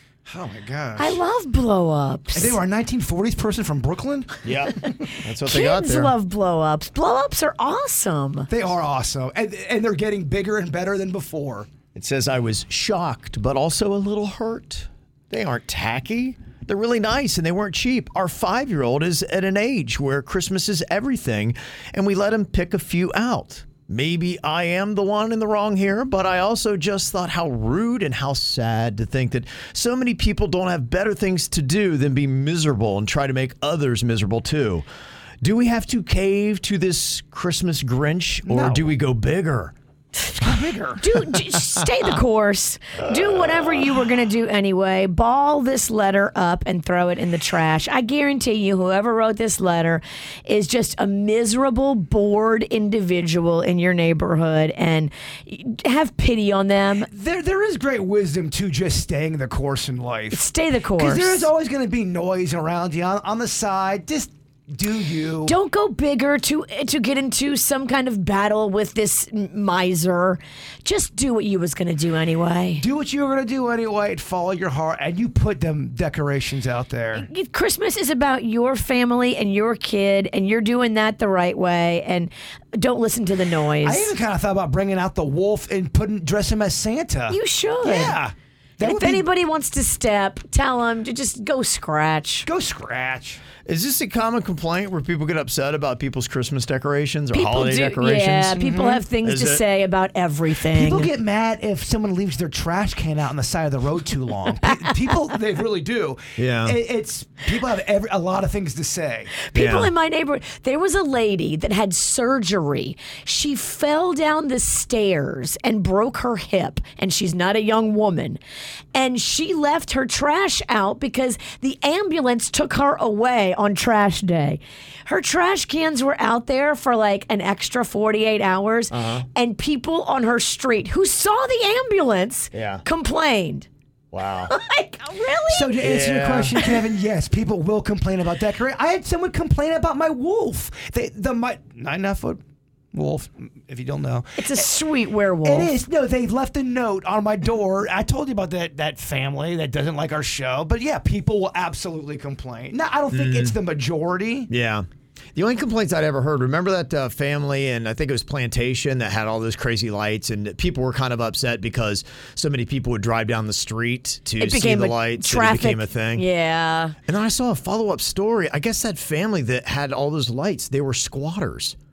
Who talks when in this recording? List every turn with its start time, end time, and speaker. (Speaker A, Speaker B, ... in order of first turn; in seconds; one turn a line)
Speaker A: 0.3-1.2
Speaker B: 1.0-2.6
Speaker A: 2.4-4.3
Speaker C: 4.4-6.1
Speaker B: 5.5-8.5
Speaker A: 8.5-11.7
Speaker C: 11.9-34.9
Speaker C: 35.4-39.7
Speaker A: 38.5-38.9
Speaker A: 40.4-41.0
Speaker B: 41.0-57.1
Speaker C: 43.0-44.0
Speaker A: 57.1-60.4
Speaker B: 60.3-61.5
Speaker A: 61.0-65.5
Speaker B: 65.5-72.8
Speaker A: 72.8-77.3
Speaker B: 77.2-84.1
Speaker A: 83.8-89.3
Speaker B: 87.3-88.2
Speaker B: 88.8-92.5
Speaker A: 92.5-93.4
Speaker C: 93.7-98.6
Speaker B: 97.3-101.1
Speaker A: 98.6-99.0
Speaker C: 99.2-99.6
Speaker A: 100.7-109.3
Speaker C: 106.4-106.8
Speaker B: 109.4-118.4
Speaker C: 109.5-109.9
Speaker B: 118.9-133.7
Speaker C: 128.9-129.3
Speaker C: 132.5-132.8
Speaker C: 134.1-134.5
Speaker B: 134.5-135.8
Speaker A: 135.5-142.4
Speaker C: 135.8-136.7
Speaker A: 142.9-144.7
Speaker B: 144.4-145.7
Speaker A: 145.4-154.5
Speaker C: 153.1-153.6
Speaker C: 154.5-166.2
Speaker B: 164.4-166.9
Speaker C: 167.1-171.8